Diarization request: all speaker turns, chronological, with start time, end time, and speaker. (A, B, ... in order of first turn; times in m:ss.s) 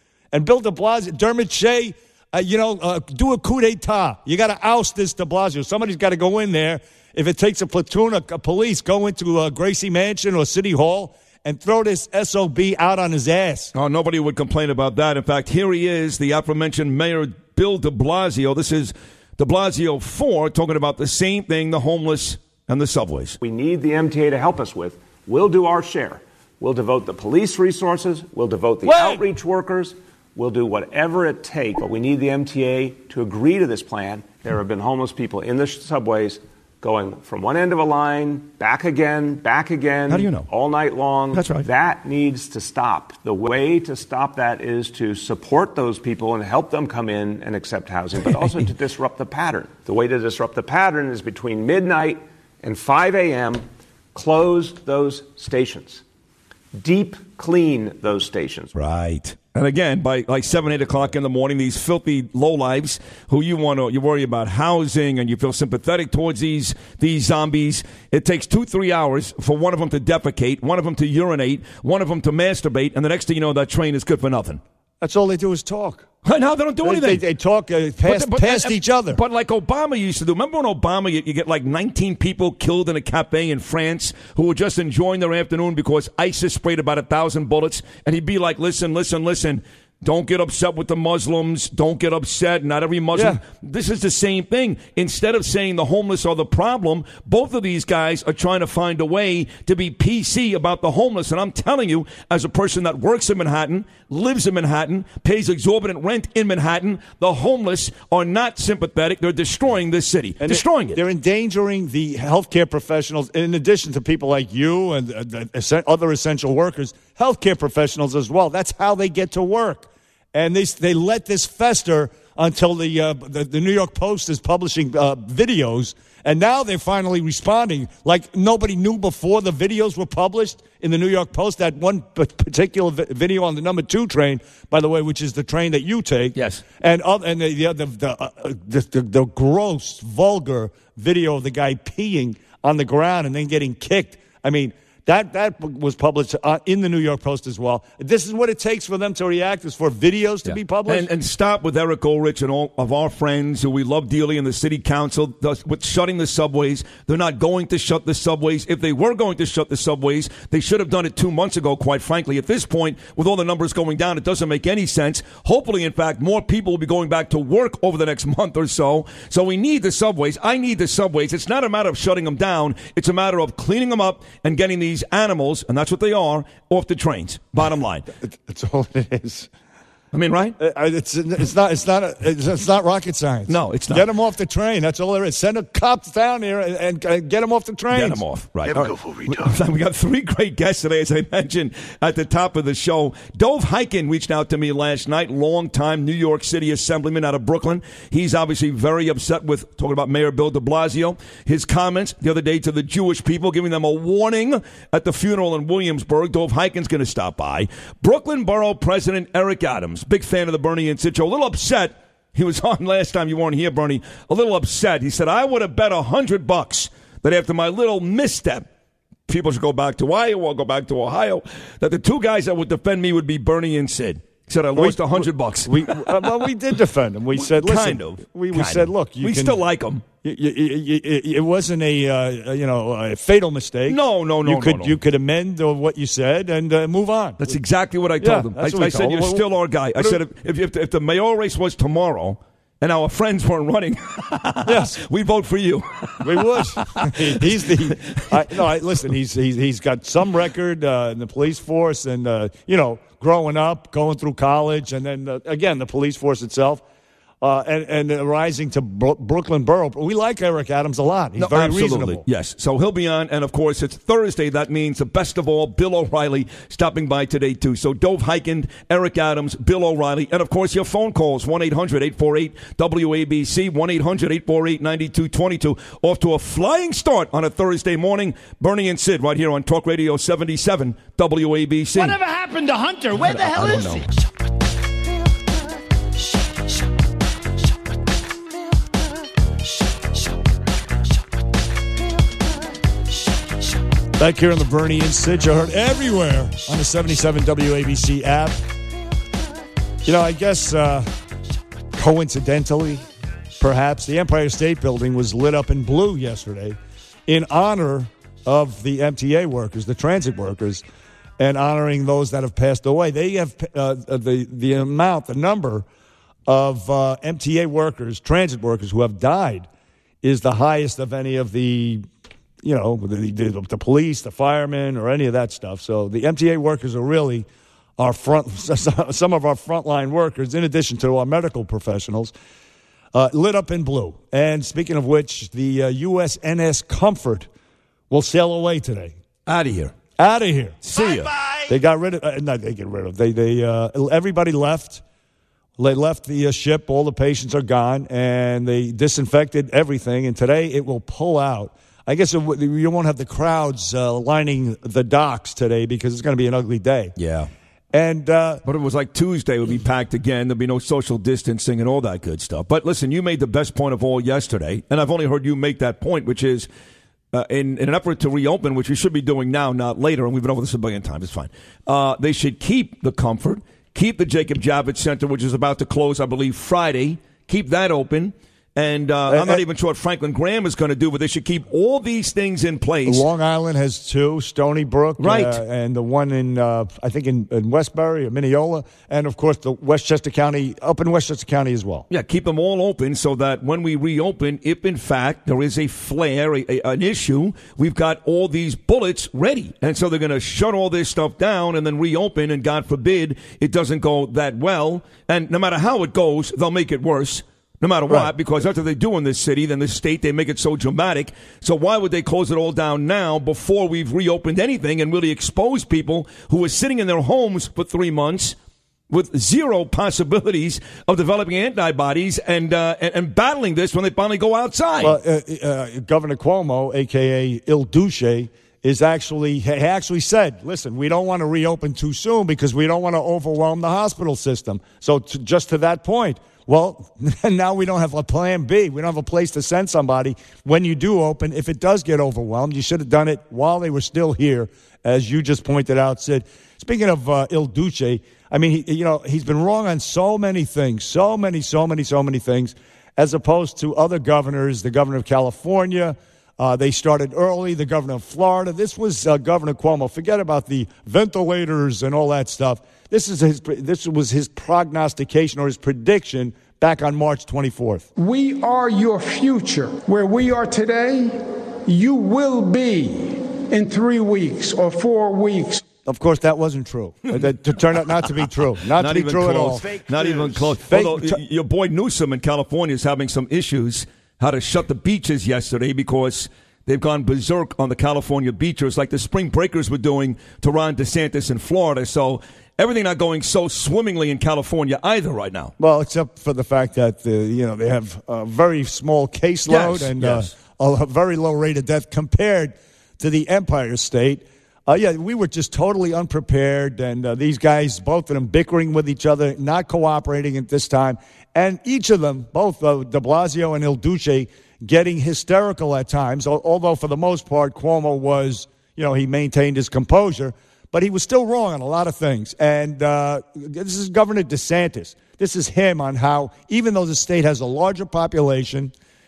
0:00.3-0:13.7 A
0:13.7-0:23.4 B
0:23.4-0:56.0 C
0:28.8-0:29.2 A
0:40.1-0:40.5 B
0:41.3-0:41.6 B
0:56.7-0:58.7 C
0:58.7-1:14.6 B
1:15.0-1:16.1 A
1:16.2-1:17.2 B
1:16.8-1:19.2 A
1:18.0-1:51.0 B
1:33.1-1:33.4 A
1:50.4-2:31.1 A
2:16.4-2:16.6 B
2:30.5-2:58.0 B
2:58.2-2:59.5 A
3:00.1-3:00.6 B
3:00.6-3:08.2 A
3:03.5-3:04.1 B
3:07.9-3:38.7 B
3:39.3-3:46.2 B
3:44.7-3:49.6 A
3:47.5-3:50.0 B
3:50.2-3:57.6 A
3:53.9-3:55.0 B
3:57.4-4:07.1 B
3:58.2-4:00.2 A
4:04.6-4:05.0 A
4:06.2-4:16.8 A
4:17.4-4:22.2 A
4:21.4-4:42.2 B
4:42.0-4:44.0 D
4:43.3-4:44.0 B
4:54.2-4:58.6 A
5:00.0-5:01.1 A
5:01.9-5:03.0 A
5:03.6-5:10.8 A
5:11.4-5:15.8 A
5:16.5-5:19.7 A
5:20.2-5:22.0 A
5:22.6-5:27.5 A
5:28.0-5:32.3 A
5:33.1-5:37.5 A
5:38.1-5:39.1 A
5:39.5-5:39.9 B
5:40.2-5:40.9 A
5:40.8-5:41.3 B
5:41.7-5:45.0 A
5:45.8-5:57.1 A
5:57.2-5:57.5 B
5:57.9-5:58.6 A
5:58.6-6:06.7 B
6:07.3-6:23.2 B
6:19.3-6:19.6 A
6:23.0-6:32.0 A
6:25.2-6:25.6 B
6:32.1-6:58.6 B
6:48.1-6:48.3 A
6:59.1-7:05.2 B
7:05.0-7:48.1 A
7:48.2-7:55.8 E
7:56.0-8:01.4 A
7:59.0-8:15.7 B
8:15.8-8:48.9 A
8:19.7-8:20.5 B